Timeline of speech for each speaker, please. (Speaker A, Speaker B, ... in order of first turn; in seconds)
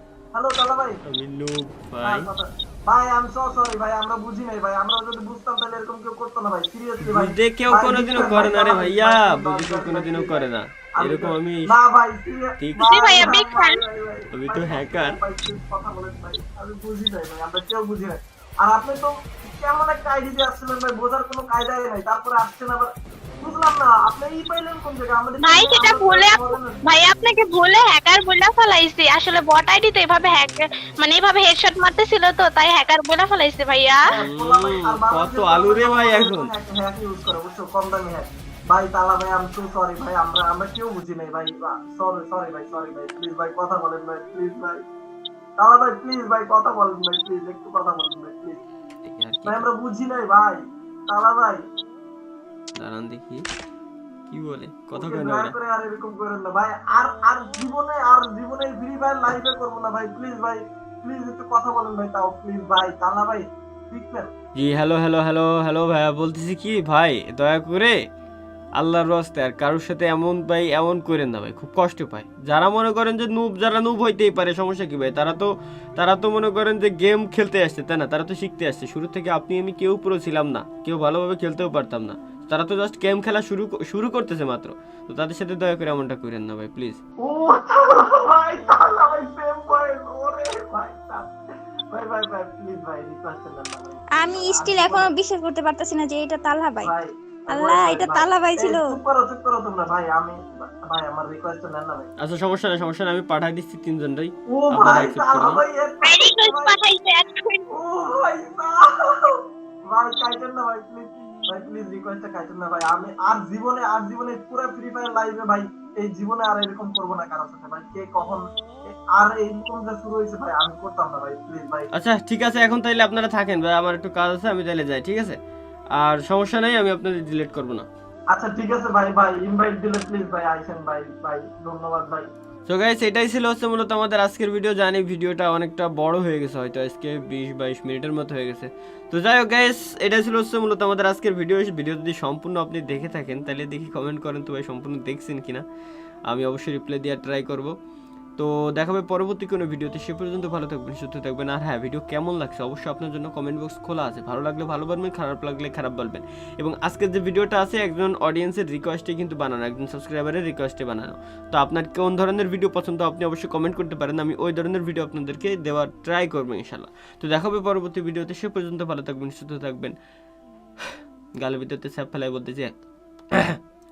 Speaker A: 0.3-1.0, 2.0-10.5, 11.0-26.8, 34.1-44.8, 45.6-48.6, 49.5-51.6, 54.9-64.3, 87.2-91.3, 91.9-95.1, 96.8-102.1, 104.5-106.8, 107.7-121.9, 128.3-132.3
Speaker B: 1.1-2.3, 7.0-11.7, 12.6-13.3, 14.3-15.2, 34.2-36.5, 49.0-49.7, 52.8-53.5, 54.3-55.5, 64.5-68.0, 68.8-87.0, 102.2-105.6, 121.9-125.4, 126.0-127.9, 132.7-145.6, 146.3-147.7, 148.4-169.9, 170.8-172.8, 173.3-173.6
Speaker C: 12.9-13.8, 25.4-34.0, 106.0-107.7
Speaker D: 94.2-96.9, 97.5-99.0